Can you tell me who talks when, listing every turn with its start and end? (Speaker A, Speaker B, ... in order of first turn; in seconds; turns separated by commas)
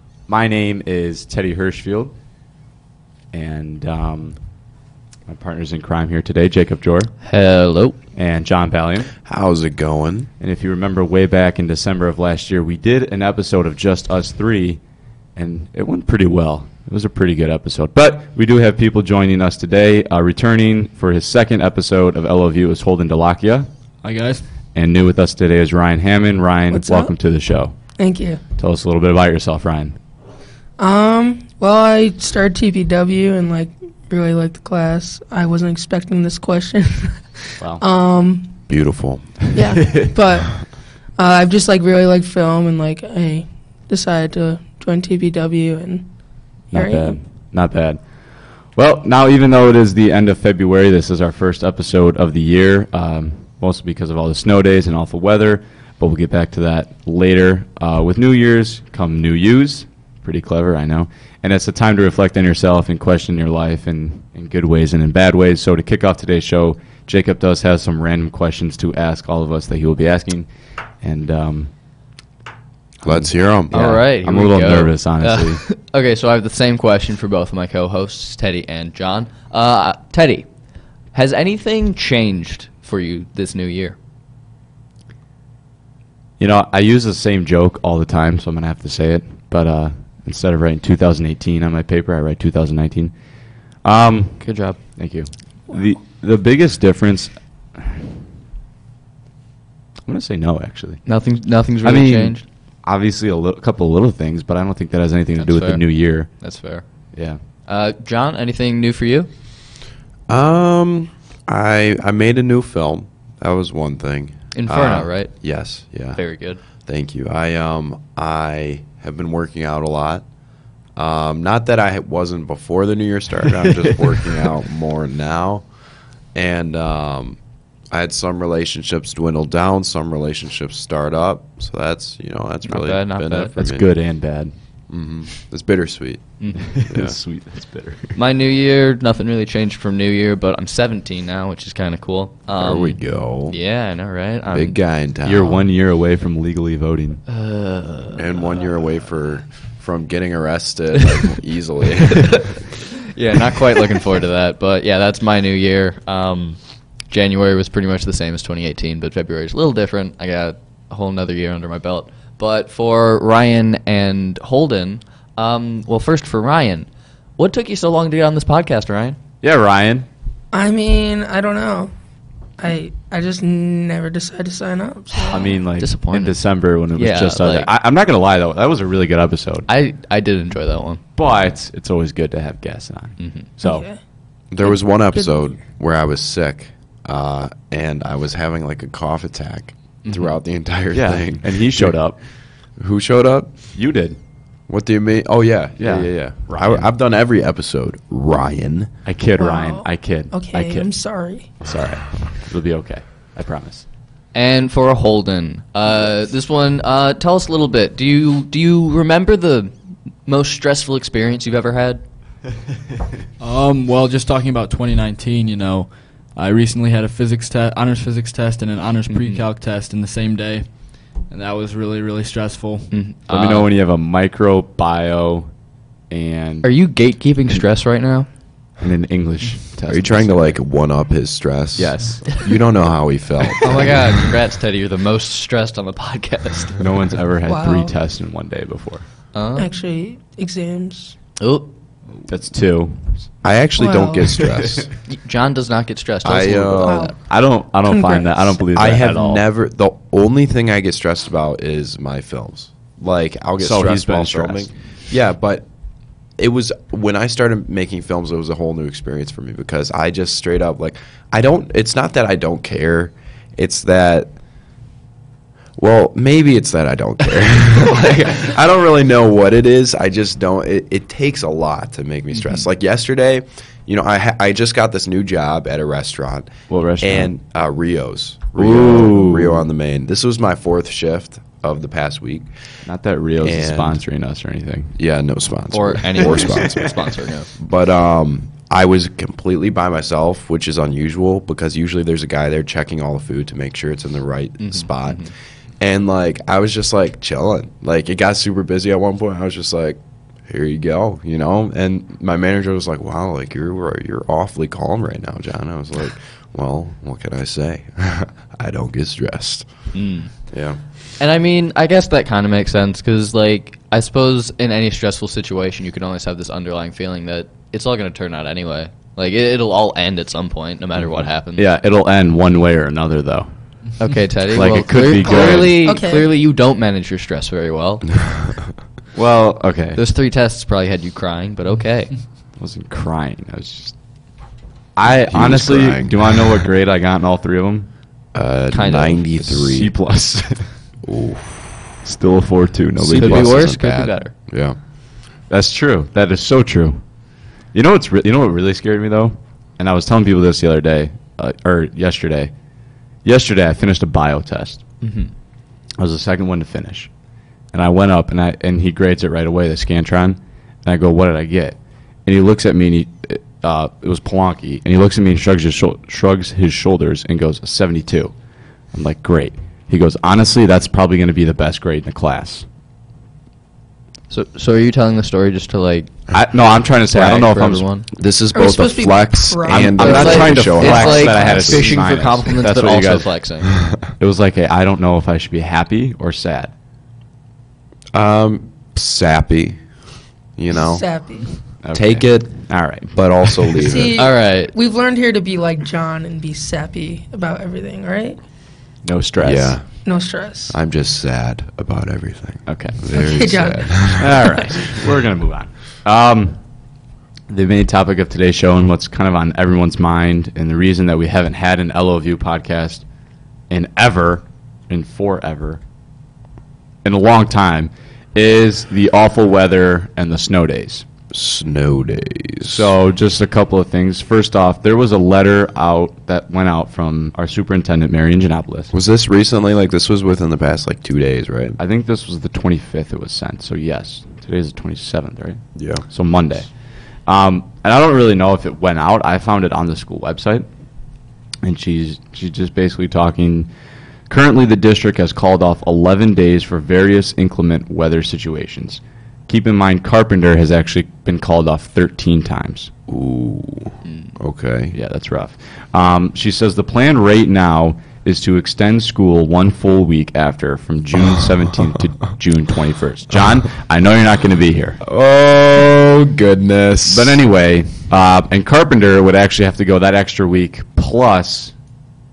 Speaker A: 0.3-2.1, Speaker A: 3.3-4.3, Speaker A: 5.3-7.1, Speaker B: 7.2-8.0, Speaker A: 8.2-9.1, Speaker C: 9.2-10.3, Speaker A: 10.4-14.8, Speaker A: 15.3-23.7, Speaker D: 24.0-24.4, Speaker A: 24.7-27.7, Speaker E: 26.7-27.1, Speaker E: 28.0-28.4, Speaker A: 28.6-29.9, Speaker E: 30.8-37.2, Speaker E: 37.8-38.5, Speaker C: 38.7-39.5, Speaker E: 39.5-46.1, Speaker A: 46.7-48.0, Speaker E: 46.7-47.1, Speaker A: 48.7-70.5, Speaker A: 71.0-71.7, Speaker C: 73.0-73.7, Speaker A: 73.0-75.6, Speaker B: 73.7-80.4, Speaker B: 81.1-84.0, Speaker A: 86.4-93.1, Speaker A: 93.8-94.4, Speaker B: 94.4-94.8, Speaker A: 95.0-98.0, Speaker A: 100.1-101.0, Speaker B: 101.0-102.4, Speaker A: 101.8-106.3, Speaker B: 105.4-106.8, Speaker A: 107.1-107.4, Speaker B: 107.7-109.3, Speaker C: 110.3-116.2, Speaker B: 114.5-115.3, Speaker B: 116.1-116.6, Speaker C: 116.8-120.2, Speaker C: 121.0-125.6, Speaker C: 126.3-127.4, Speaker C: 127.9-133.9, Speaker B: 132.7-133.5, Speaker A: 133.5-134.5, Speaker C: 134.9-136.4, Speaker B: 136.4-136.7, Speaker A: 136.6-138.2, Speaker C: 136.9-137.2, Speaker B: 138.1-144.8, Speaker C: 142.6-143.6, Speaker C: 144.5-145.6, Speaker A: 145.2-147.2, Speaker B: 147.3-148.3, Speaker C: 148.1-152.6, Speaker B: 152.3-166.9, Speaker B: 167.4-169.2, Speaker A: 169.4-170.1, Speaker E: 170.5-171.9, Speaker E: 172.6-175.5, Speaker B: 175.2-176.4, Speaker A: 175.3-179.7, Speaker B: 176.9-177.7, Speaker B: 179.7-181.0, Speaker A: 181.2-183.8, Speaker B: 183.2-183.5, Speaker E: 183.6-184.0, Speaker C: 184.5-191.9, Speaker B: 190.0-190.3, Speaker A: 190.9-192.2, Speaker C: 192.8-193.5, Speaker A: 193.7-194.2, Speaker C: 194.7-198.9, Speaker A: 195.8-196.8, Speaker A: 199.1-200.9, Speaker E: 199.4-201.5, Speaker A: 201.6-203.8, Speaker B: 204.3-209.7, Speaker B: 210.2-212.0, Speaker D: 213.4-220.7, Speaker B: 219.1-219.4, Speaker D: 221.3-222.9, Speaker B: 222.9-223.7, Speaker A: 223.3-225.5, Speaker A: 226.1-226.7, Speaker B: 226.6-228.3, Speaker A: 228.8-230.5, Speaker C: 229.9-234.1, Speaker A: 231.8-232.4, Speaker B: 233.6-236.8, Speaker A: 236.8-239.1, Speaker E: 237.4-237.9, Speaker B: 239.3-239.7, Speaker E: 239.6-241.1, Speaker B: 241.4-241.7, Speaker A: 242.3-243.2, Speaker C: 243.4-244.9, Speaker E: 243.8-244.3, Speaker B: 245.1-247.1, Speaker C: 246.2-247.1, Speaker E: 246.8-247.1, Speaker A: 247.2-249.4, Speaker E: 247.9-248.5, Speaker C: 248.7-255.6, Speaker A: 253.6-254.7, Speaker C: 256.4-264.3, Speaker C: 265.8-282.5, Speaker B: 272.4-272.6, Speaker A: 276.7-277.3, Speaker A: 278.6-279.6, Speaker A: 282.8-284.9, Speaker C: 283.4-284.0, Speaker C: 285.0-309.7, Speaker B: 285.7-287.5, Speaker B: 294.6-295.3, Speaker B: 309.9-310.3, Speaker C: 310.5-310.8, Speaker B: 311.2-321.7, Speaker A: 321.6-323.5, Speaker B: 324.0-328.2, Speaker A: 324.5-325.8, Speaker E: 325.2-326.3, Speaker A: 329.1-330.0, Speaker B: 329.9-332.1, Speaker A: 332.6-333.9, Speaker A: 334.9-337.9, Speaker C: 335.1-336.6, Speaker C: 338.3-339.9, Speaker B: 338.7-339.2, Speaker A: 339.4-340.7, Speaker C: 341.0-341.7, Speaker A: 342.0-343.6, Speaker C: 343.0-344.8, Speaker B: 343.1-344.3, Speaker A: 345.5-347.0, Speaker A: 347.7-352.5, Speaker A: 353.2-354.8, Speaker B: 355.0-355.3, Speaker A: 356.0-357.1, Speaker A: 357.7-368.3, Speaker A: 368.9-372.6, Speaker B: 374.3-376.2, Speaker A: 376.3-377.8, Speaker B: 377.1-378.1, Speaker C: 378.2-382.0, Speaker E: 378.5-380.6, Speaker A: 379.7-383.3, Speaker B: 380.0-383.7, Speaker A: 384.2-386.7, Speaker C: 388.1-389.8, Speaker C: 390.6-391.0, Speaker E: 390.7-391.5, Speaker A: 391.8-393.1, Speaker C: 391.9-392.6, Speaker C: 393.1-394.2, Speaker E: 393.8-398.4, Speaker B: 394.1-394.7, Speaker A: 399.0-399.8, Speaker C: 399.4-399.9, Speaker E: 400.0-400.8, Speaker C: 400.7-405.0, Speaker A: 402.6-403.0, Speaker E: 403.1-404.2, Speaker A: 404.1-406.6, Speaker A: 407.5-413.0, Speaker A: 413.7-415.8, Speaker A: 417.0-421.1, Speaker C: 421.3-422.9, Speaker A: 422.6-428.9, Speaker C: 428.9-431.8, Speaker A: 431.8-436.7, Speaker C: 435.8-436.0, Speaker A: 437.3-440.7, Speaker A: 441.6-443.7, Speaker A: 444.3-452.9, Speaker C: 453.1-454.9, Speaker A: 454.9-465.0, Speaker C: 465.0-467.4, Speaker A: 467.1-471.7